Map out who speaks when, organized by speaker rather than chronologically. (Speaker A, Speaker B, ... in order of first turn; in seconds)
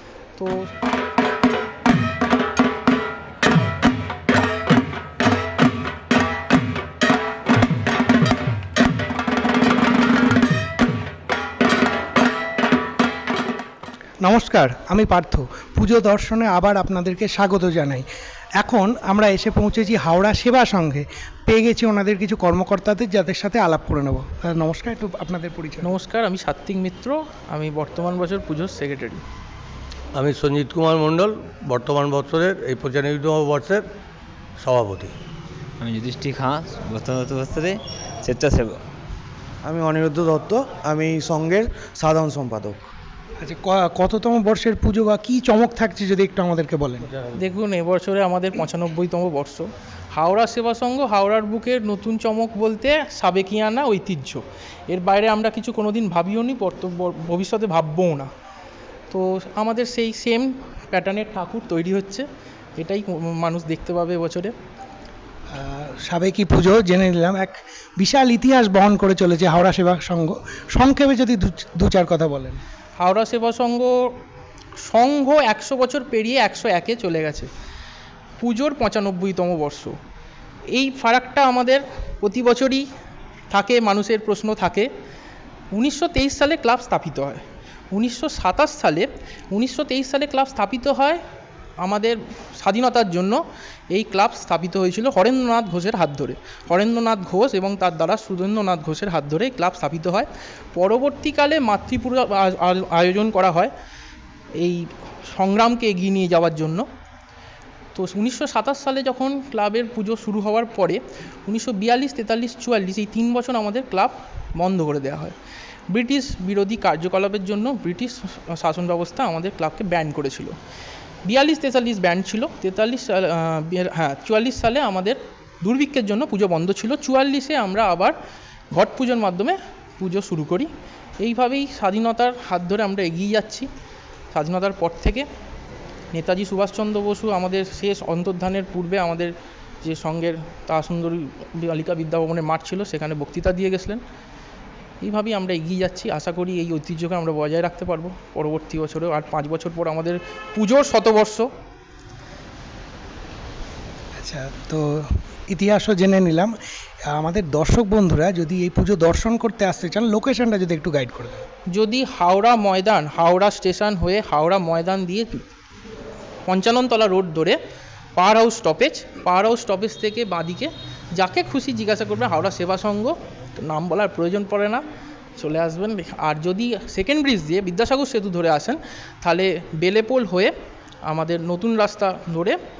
Speaker A: 0.4-0.7, 25.8-29.2, 47.4-58.3, 59.1-62.3, 62.8-64.5, 73.0-74.2, 74.8-77.5, 78.4-80.0, 80.7-82.9, 83.5-84.9, 85.7-91.2, 91.8-93.4, 93.9-103.7, 104.6-106.9, 108.0-115.3, 115.9-120.6, 121.2-128.2, 128.7-130.7, 131.2-133.7, 134.3-135.3, 136.1-139.3, 139.8-144.0, 145.0-151.5, 161.7-165.4, 166.5-167.6, 168.2-174.8, 175.4-180.5, 181.1-182.6
Speaker B: 14.2-18.1, 18.6-25.9, 43.4-47.1, 65.5-72.6, 154.2-156.5, 157.1-161.4
Speaker C: 30.1-33.9, 34.6-35.1
Speaker D: 35.8-38.8
Speaker E: 39.6-42.9